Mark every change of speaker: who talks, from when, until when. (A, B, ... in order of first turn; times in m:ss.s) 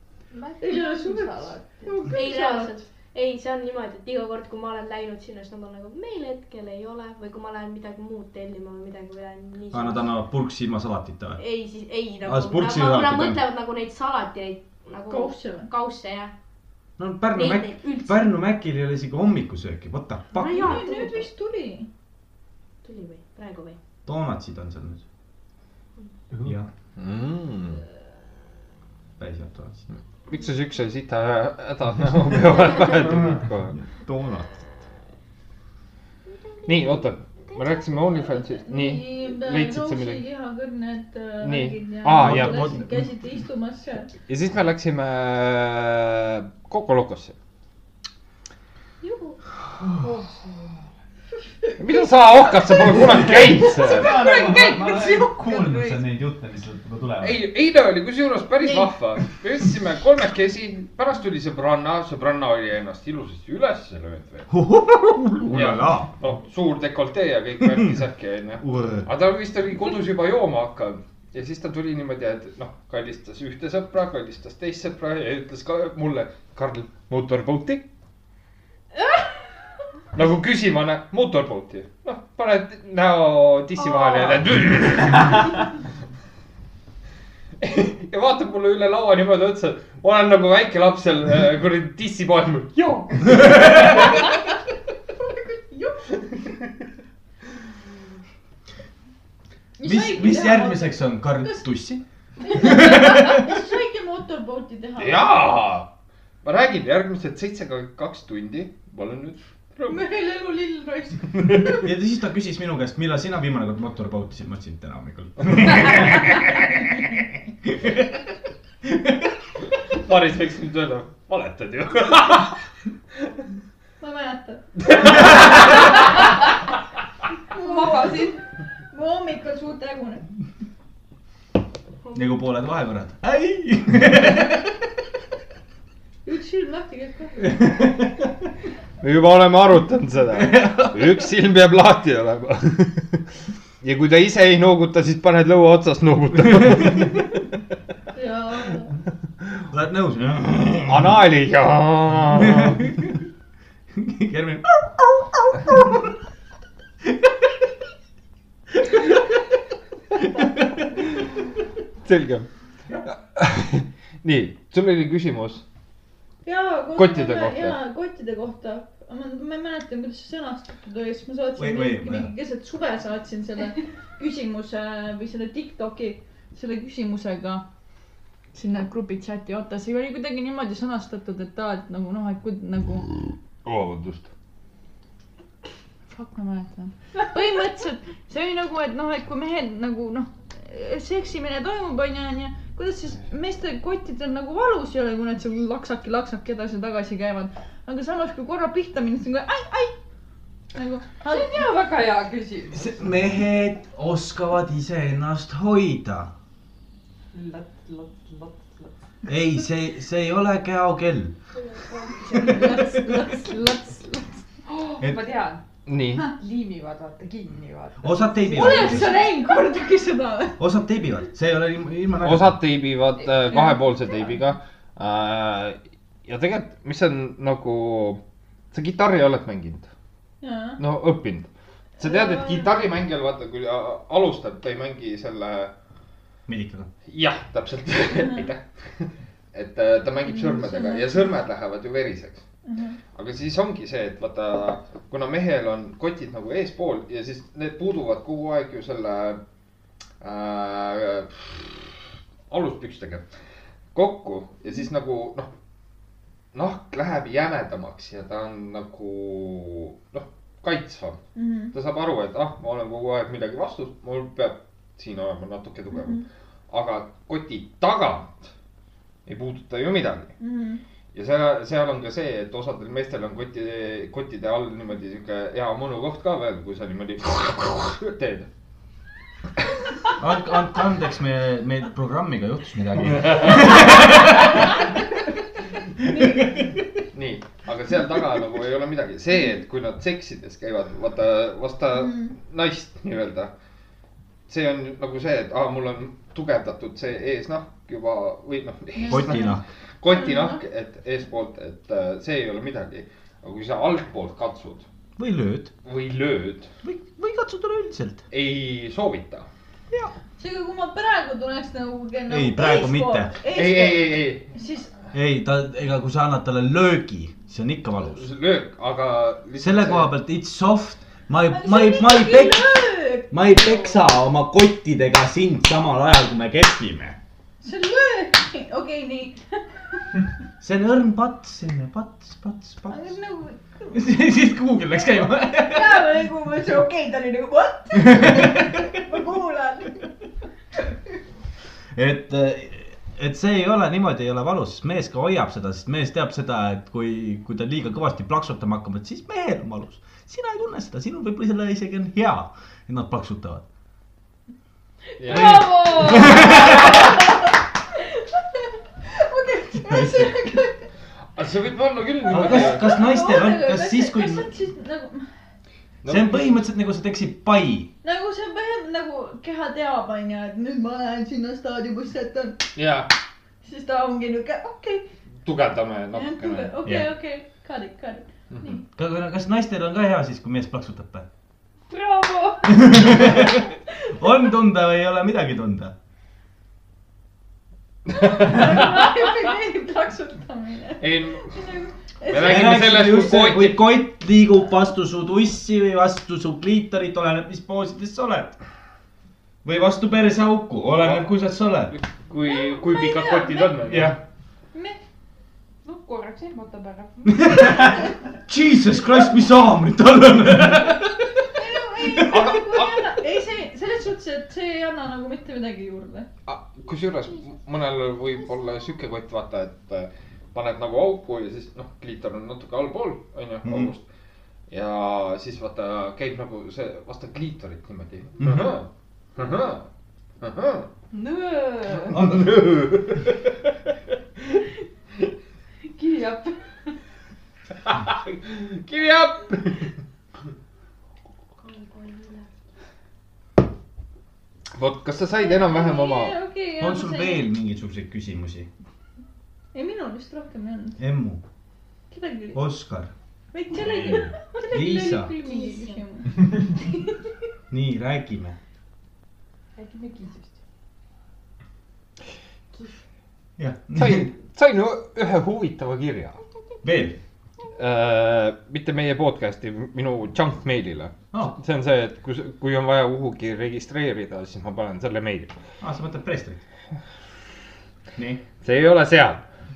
0:00.3-0:02.1 A
0:00.6-0:02.8 B
0:02.0-0:10.1 C
0:09.7-0:11.4 D
0:11.4-0:16.3 C
0:12.2-0:13.4 D
0:15.1-0:15.7 B
0:17.0-0:20.8 D
0:17.3-0:18.3 C
0:20.4-0:21.3 C
0:20.4-0:21.9 B
0:22.8-0:23.8 C
0:24.0-0:25.0 D
0:26.4-0:26.7 D
0:27.0-0:27.8 E
0:29.2-0:29.9 D
0:30.3-0:33.8 E
0:33.0-0:34.5 D
0:36.6-0:40.2 E
0:38.6-0:44.1 B
0:41.4-0:42.8 E
0:42.2-0:43.1 D
0:44.3-0:47.4 E
0:49.0-0:49.4 C
0:50.0-0:50.8 A
0:51.8-0:54.3 E
0:53.1-0:57.4 F
0:53.8-0:56.0 B
0:57.2-1:04.5 E
0:58.6-0:58.9 B
1:04.5-1:06.1 D
1:05.5-1:17.8 E
1:07.6-1:07.9 D
1:08.6-1:09.1 D
1:20.1-1:25.7 E
1:27.6-1:34.3 E
1:35.3-1:36.0 B
1:39.8-1:41.6 B
1:39.8-1:43.5 D
1:42.4-1:45.4 B
1:45.0-1:45.9 E
1:46.4-1:50.0 E
1:49.9-1:51.6 B
1:51.7-1:56.4 D
1:57.6-1:58.1 D
1:58.9-1:59.2 D
1:59.9-2:02.6 E
2:04.0-2:05.8 B
2:04.8-2:06.0 E
2:07.5-2:10.2 B
2:07.6-2:08.4 A
2:12.0-2:12.3 C
2:12.1-2:14.7 D
2:16.2-2:17.5 B
2:17.6-2:18.0 D
2:19.0-2:23.2 E
2:20.3-2:21.1 D
2:23.8-2:27.3 E
2:28.2-2:28.9 B
2:29.7-2:31.2 D
2:30.9-2:32.9 E
2:32.3-2:33.2 D
2:33.9-2:36.1 D
2:37.0-2:37.3 D
2:40.4-2:40.6 D
2:42.0-2:42.5 E
2:43.4-2:45.6 E
2:46.4-2:57.6 B
2:47.0-2:47.8 E
2:51.6-2:52.3 D
2:58.5-3:03.1 B
3:03.6-3:04.3 E
3:06.1-3:20.0 B
3:20.7-3:21.5 B
3:21.2-3:23.0 A
3:22.7-3:26.3 D
3:27.3-3:28.9 A
3:29.3-3:31.3 D
3:32.0-3:32.6 A
3:32.2-3:34.4 B
3:34.7-3:35.6 A
3:35.9-3:36.3 E
3:36.2-3:39.3 A
3:38.0-3:39.2 D
3:38.5-3:40.6 B
3:40.6-3:42.6 D
3:42.2-3:48.2 E
3:48.7-3:49.9 E
3:50.4-3:50.8 B
3:50.8-3:55.7 E
3:52.0-3:52.7 B
3:56.5-3:56.9 D
3:57.1-4:02.4 E
4:00.2-4:01.3 B
4:02.7-4:03.0 B
4:03.2-4:09.4 E
4:10.2-4:13.3 E
4:13.9-4:15.5 E
4:16.5-4:21.2 E
4:21.4-4:21.7 B
4:21.7-4:28.5 E
4:25.9-4:26.2 B
4:29.3-4:30.3 E
4:30.4-4:30.8 B
4:31.1-4:38.5 E
4:40.2-4:44.6 D
4:43.0-4:44.4 E
4:46.0-4:46.8 D
4:46.1-4:46.4 B
4:47.1-4:53.5 E
4:52.0-4:52.3 B
4:54.5-5:04.8 E
4:59.0-4:59.6 B
4:59.1-4:59.6 D
5:00.1-5:00.6 B
5:05.2-5:05.7 D
5:05.8-5:06.7 E
5:06.8-5:08.2 D
5:08.3-5:09.5 E
5:10.4-5:14.9 B
5:12.3-5:13.4 D
5:13.5-5:14.4 E
5:15.1-5:18.3 D
5:18.2-5:20.1 E
5:19.6-5:22.7 D
5:21.5-5:23.4 B
5:23.3-5:27.2 D
5:27.6-5:29.6 B
5:30.6-5:33.2 D
5:32.9-5:34.0 B
5:33.9-5:36.1 D
5:35.6-5:40.1 B
5:37.9-5:38.8 D
5:42.0-5:53.6 D
5:55.2-5:56.6 E
5:55.3-5:57.5 B
5:55.3-5:57.0 D
5:55.4-5:55.9 A
5:58.2-6:00.9 B
5:59.9-6:00.3 D
6:01.4-6:02.9 E
6:02.3-6:04.5 D
6:02.4-6:05.3 B
6:06.0-6:06.5 E
6:06.1-6:07.9 D
6:08.0-6:12.7 B
6:12.8-6:13.1 E
6:13.6-6:15.1 B
6:15.4-6:16.7 E
6:16.1-6:18.8 B
6:16.8-6:17.1 D
6:19.0-6:21.3 D
6:21.9-6:23.2 A
6:22.7-6:25.9 D
6:28.1-6:32.7 B
6:31.0-6:31.6 E
6:32.3-6:33.8 E
6:32.4-6:38.6 D
6:39.6-6:41.9 D
6:41.9-6:44.2 E
6:42.4-6:43.7 B
6:43.9-6:44.2 D
6:44.7-6:45.0 B
6:45.8-6:48.0 A
6:47.3-6:51.3 D
6:51.6-6:56.3 B
6:52.0-6:52.3 D
6:52.2-6:53.1 E
6:56.5-7:04.0 E
7:03.6-7:03.9 D
7:04.7-7:09.9 E
7:08.4-7:08.7 D
7:10.4-7:10.9 E
7:11.1-7:12.2 A
7:12.1-7:12.7 D
7:12.2-7:13.3 E
7:15.9-7:16.9 A
7:17.8-7:19.9 E
7:21.6-7:22.5 C
7:24.8-7:26.4 E
7:25.4-7:27.5 B
7:26.8-7:28.7 D
7:29.7-7:31.0 B
7:31.0-7:31.4 D
7:32.1-7:32.6 B
7:32.5-7:33.1 D
7:33.5-7:37.2 B
7:33.8-7:34.3 F
7:34.7-7:35.4 D
7:35.3-7:36.0 C
7:37.7-7:38.6 D
7:39.8-7:40.6 A
7:43.6-7:44.3 D
7:44.0-7:46.4 E
7:46.8-7:47.2 D
7:47.8-7:55.5 E
7:55.8-7:56.6 D
7:58.2-7:58.4 D
7:58.6-7:59.4 E